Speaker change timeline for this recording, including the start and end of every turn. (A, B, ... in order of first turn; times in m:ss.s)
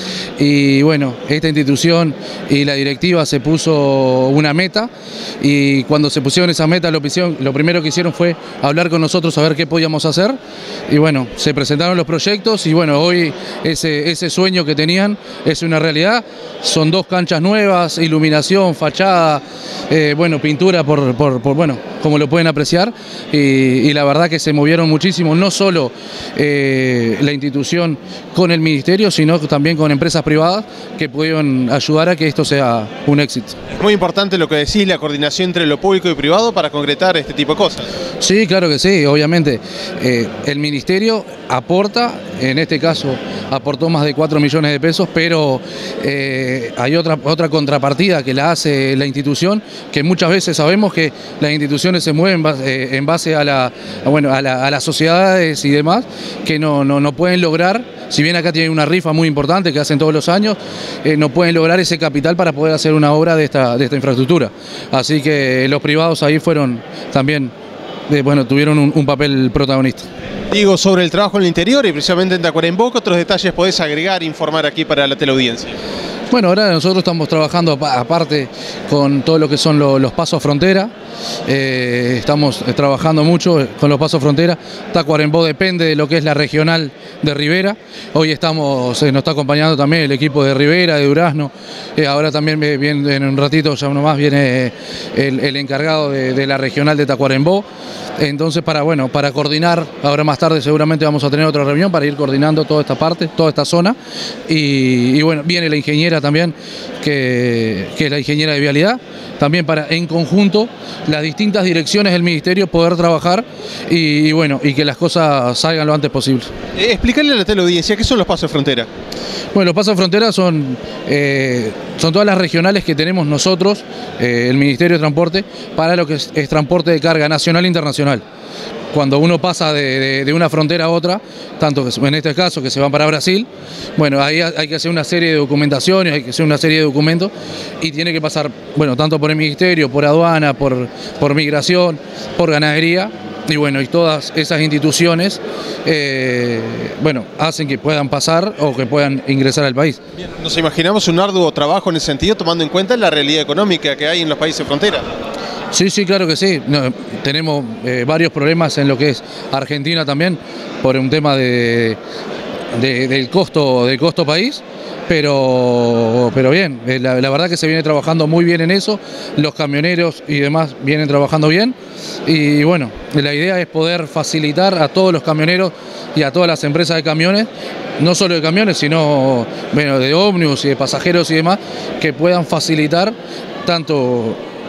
0:00.4-0:10.4 A
0:10.9-0:33.6 A
0:33.8-0:37.9 B
0:38.2-1:07.5 A
1:08.1-1:10.1 A
1:10.5-1:15.7 B
1:16.3-1:20.9 A
1:21.5-1:37.6 A
1:38.2-1:44.0 A
1:44.5-1:56.5 A
1:56.8-1:58.9 B
1:59.5-2:08.2 A
2:08.9-2:30.0 A
2:30.3-2:35.1 B
2:35.7-2:42.0 A
2:42.7-3:04.4 A